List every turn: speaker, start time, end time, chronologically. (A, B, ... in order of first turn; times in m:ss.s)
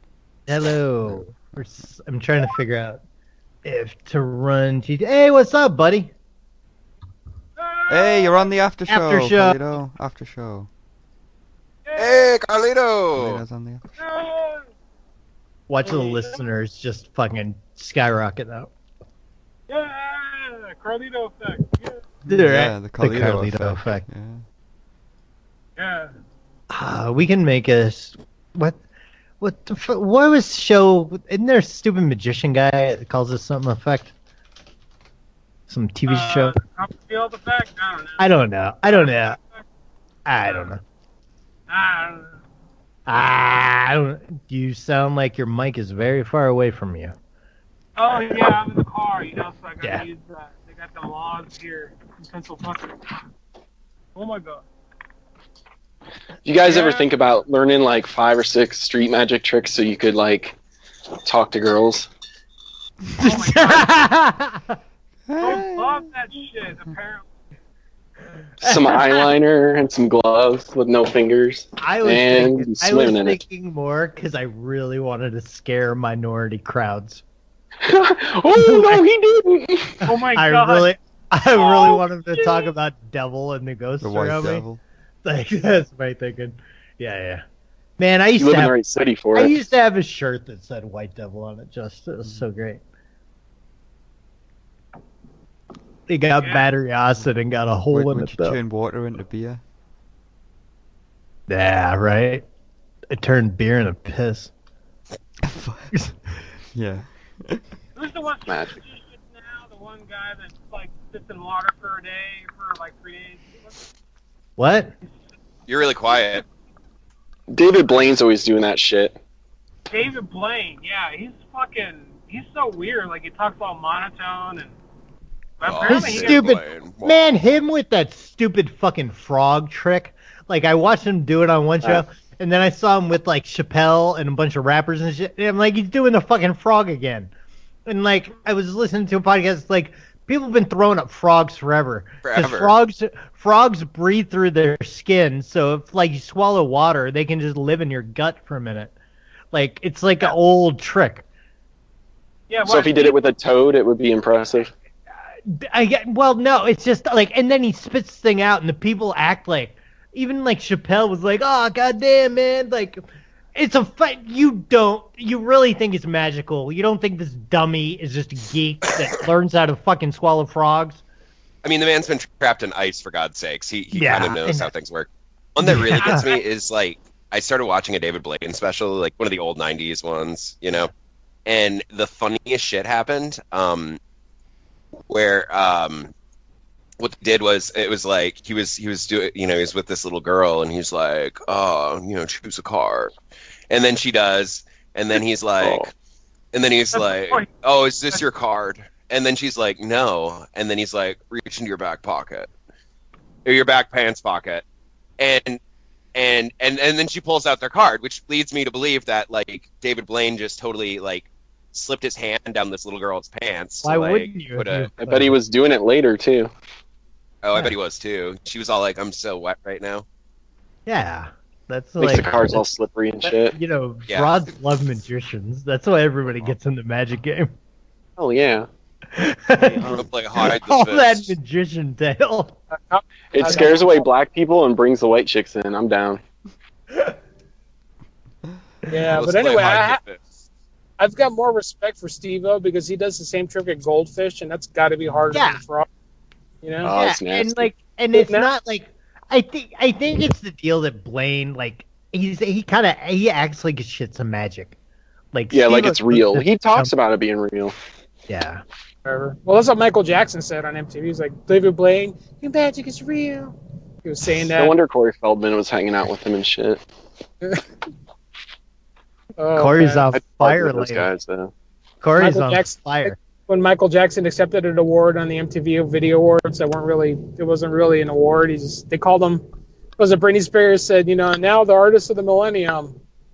0:00.5-0:03.0 A
0:03.6-0:06.1 A
0:07.6-0:08.4 B
0:07.9-0:10.7 C
0:08.9-0:09.6 A
0:11.9-0:12.3 B
0:12.0-0:13.4 D
0:13.1-0:13.9 C
0:14.0-0:14.6 B
0:15.7-0:18.7 A
0:15.9-0:16.2 B
0:19.7-0:22.0 B
0:22.2-0:24.4 C
0:22.3-0:24.0 A
0:25.8-0:26.1 B
0:26.7-0:28.8 A
0:29.4-0:34.1 A
0:35.7-0:36.6 A
0:36.1-0:38.2 B
0:38.2-0:39.4 A
0:38.9-0:39.4 B
0:40.3-0:40.8 A
0:40.4-0:40.7 B
0:41.7-0:42.3 B
0:43.1-0:47.2 A
0:48.0-0:52.9 B
0:48.1-0:48.5 A
0:54.2-0:54.6 B
0:56.4-1:00.6 E
0:56.6-0:57.1 B
1:01.2-1:02.1 E
1:03.2-1:04.8 A
1:03.2-1:04.0 B
1:05.3-1:06.1 C
1:05.4-1:07.2 B
1:08.6-1:09.0 A
1:08.6-1:13.4 E
1:11.8-1:17.2 A
1:17.8-1:20.0 E
1:18.5-1:19.1 A
1:20.0-1:24.6 A
1:20.0-1:20.9 B
1:24.0-1:24.8 C
1:25.2-1:27.4 A
1:28.0-1:28.8 A
1:28.4-1:29.6 E
1:29.3-1:32.8 A
1:36.1-1:38.6 A
1:37.9-1:39.6 C
1:41.5-1:42.4 A
1:43.1-1:44.5 A
1:45.4-1:45.9 C
1:46.7-1:47.6 C
1:48.0-1:53.7 B
1:48.4-1:48.8 E
1:54.6-1:54.9 A
1:55.7-1:56.4 D
1:57.5-1:59.2 E
1:59.9-2:04.7 B
2:05.6-2:06.4 B
2:05.6-2:07.3 D
2:05.9-2:17.3 A
2:17.9-2:28.9 A
2:22.2-2:22.7 D
2:29.5-2:31.2 A
2:32.5-2:33.3 B
2:32.6-2:34.7 E
2:35.4-2:43.0 A
2:43.6-2:51.0 A
2:51.6-3:00.9 D
2:54.0-2:54.7 A
2:55.6-2:56.2 A
2:56.0-2:56.4 B
3:01.5-3:04.0 D
3:05.1-3:06.1 D
3:07.0-3:13.1 D
3:13.7-3:15.9 D
3:15.6-3:15.9 E
3:16.5-3:22.5 D
3:17.0-3:17.4 B
3:23.4-3:24.6 D
3:25.2-3:25.6 D
3:26.2-3:34.9 D
3:33.8-3:35.4 A
3:35.0-3:36.5 E
3:37.4-3:40.0 D
3:40.9-3:42.6 A
3:42.0-3:43.6 E
3:43.2-3:47.5 A
3:48.2-3:48.7 E
3:49.1-3:52.6 A
3:49.9-3:51.3 D
3:52.8-3:54.1 B
3:53.3-3:56.2 E
3:58.9-4:00.0 B
3:59.1-4:00.3 D
4:01.0-4:05.9 B
4:05.3-4:05.6 A
4:06.6-4:06.9 B
4:06.8-4:07.7 E
4:06.8-4:14.8 A
4:08.1-4:08.5 B
4:15.3-4:16.9 A
4:15.5-4:17.8 E
4:18.3-4:18.6 A
4:19.1-4:24.8 B
4:24.4-4:26.8 E
4:29.4-4:30.0 B
4:29.6-4:31.1 A
4:30.1-4:31.5 E
4:32.0-4:33.2 A
4:32.2-4:39.4 B
4:40.0-4:43.0 B